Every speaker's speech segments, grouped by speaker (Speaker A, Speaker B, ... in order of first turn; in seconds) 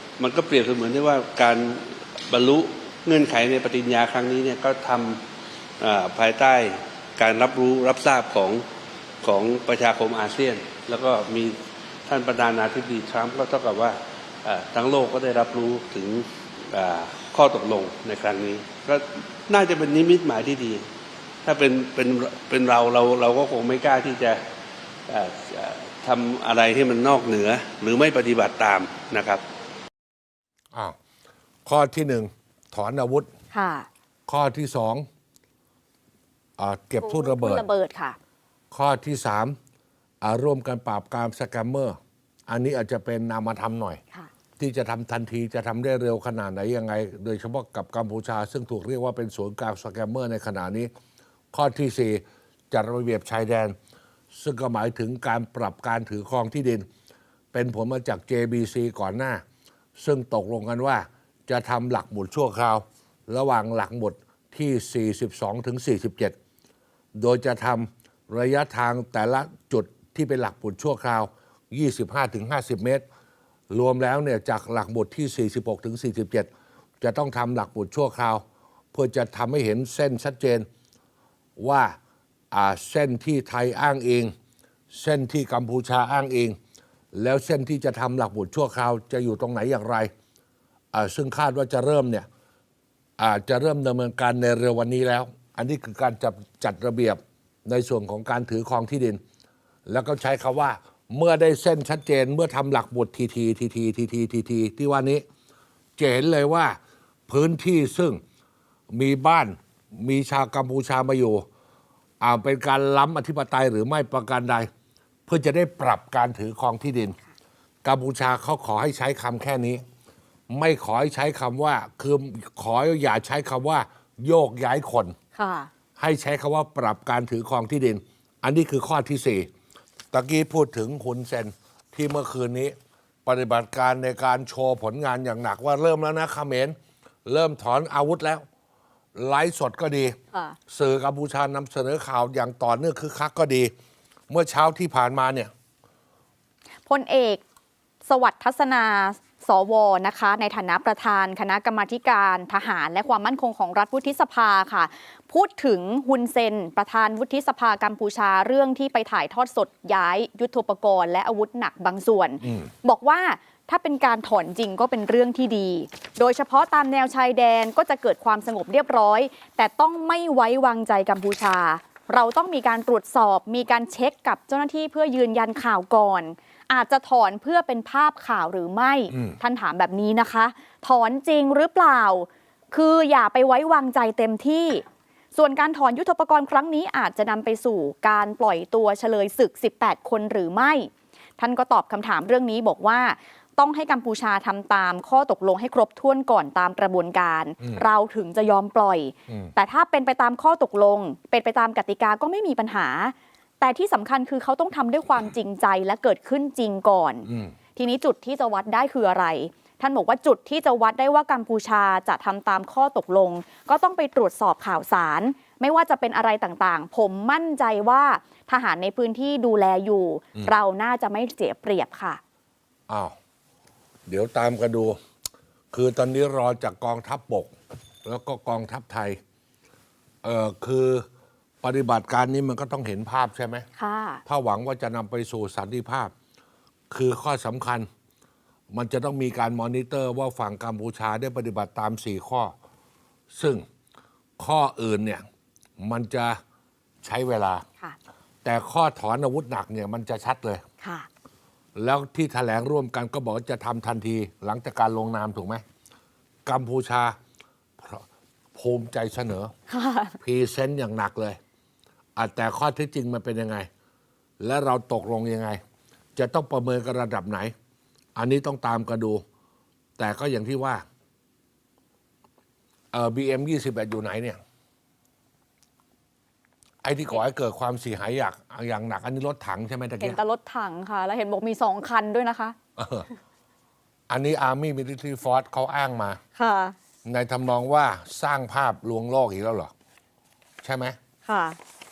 Speaker A: 0.2-5.2, 5.8-8.6, 9.2-20.8, 21.4-24.4, 25.1-29.4
Speaker B: 31.6-33.3, 34.3-35.0, 36.6-37.6, 38.7-39.6, 40.2-42.0, 42.5-44.0, 44.6-50.9, 51.5-53.8, 54.3-56.9, 57.5-59.4, 60.0-66.3, 67.2-73.0, 73.7-76.5, 77.0-80.7, 81.6-82.0, 82.5-84.3, 84.9-86.6, 87.1-90.1, 90.9-92.3, 93.2-99.2, 99.9-105.2, 106.0-108.2, 108.9-111.4, 112.2-114.7, 115.3-117.2, 117.8-119.8, 120.5-125.2, 126.0-129.5, 130.1-138.4, 139.1-140.2, 140.7-143.7, 144.3-145.5, 162.4-162.7, 179.1-179.4, 199.3-199.5, 207.2-207.5, 222.9-223.2, 224.1-225.0, 225.7-229.2, 230.2-231.1, 231.6-233.6, 234.2-236.1, 236.9-237.9, 238.7-242.5, 243.3-243.7, 244.4-245.2, 245.8-246.4, 247.0-247.6, 248.4-250.6, 251.8-255.6, 256.4-257.1, 257.8-259.5, 260.2-261.4, 262.1-263.7, 264.4-265.6, 266.1-267.5, 268.1-269.2, 270.0-270.8, 272.9-274.4, 276.8-280.2, 282.8-283.1, 284.1-286.2, 287.0-289.7, 290.6-291.0
Speaker C: 33.5-33.9, 37.0-38.2, 125.3-125.7, 146.9-147.4, 148.0-184.8, 185.3-222.2, 233.8-234.2, 250.8-251.1, 259.7-260.2, 280.0-282.6, 286.4-286.7, 291.2-291.6